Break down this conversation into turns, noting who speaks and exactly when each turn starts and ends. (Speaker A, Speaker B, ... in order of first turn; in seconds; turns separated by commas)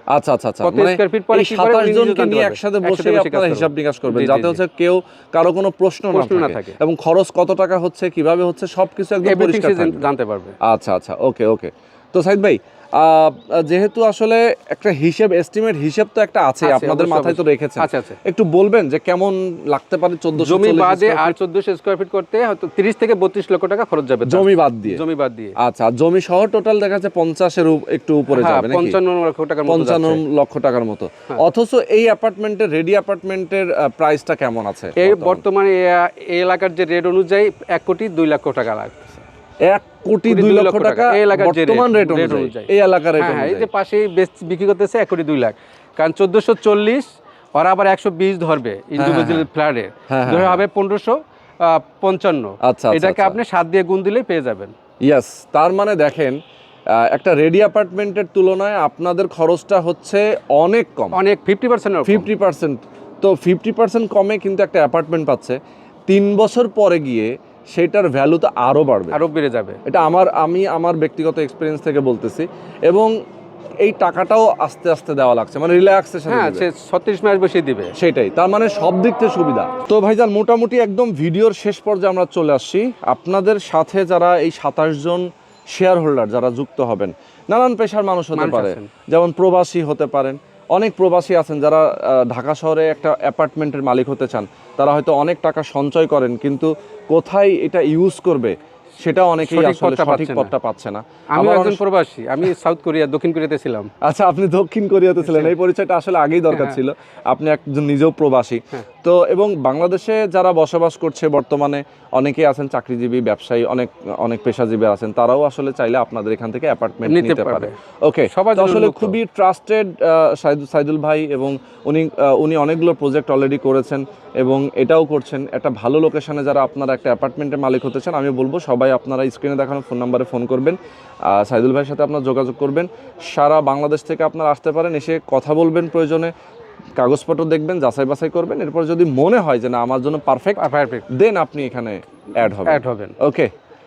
Speaker A: 0.1-10.1, Speaker B: 0.6-4.6, Speaker B: 6.1-6.8, Speaker B: 9.2-10.6, Speaker A: 10.6-21.3, Speaker B: 16.6-18.2, Speaker B: 20.4-25.6, Speaker A: 24.2-25.0, Speaker A: 25.6-29.0, Speaker B: 28.3-30.2, Speaker A: 29.7-35.4, Speaker B: 35.0-39.2, Speaker A: 39.6-43.7, Speaker B: 40.3-54.7, Speaker A: 49.0-49.5, Speaker A: 50.1-50.6, Speaker A: 52.6-53.4, Speaker A: 55.0-56.4, Speaker A: 56.9-61.2, Speaker B: 61.1-62.3, Speaker A: 62.0-65.6, Speaker A: 66.1-69.2, Speaker B: 69.1-69.8, Speaker A: 69.8-73.1, Speaker A: 73.8-76.7, Speaker B: 76.3-77.9, Speaker A: 78.0-101.8, Speaker B: 88.3-88.9, Speaker B: 99.4-100.5, Speaker B: 101.3-103.9, Speaker A: 104.0-136.3, Speaker B: 105.2-105.5, Speaker B: 106.5-106.8, Speaker B: 117.0-117.7, Speaker B: 118.3-119.2, Speaker A: 137.0-143.5, Speaker B: 140.6-141.1, Speaker B: 142.6-143.2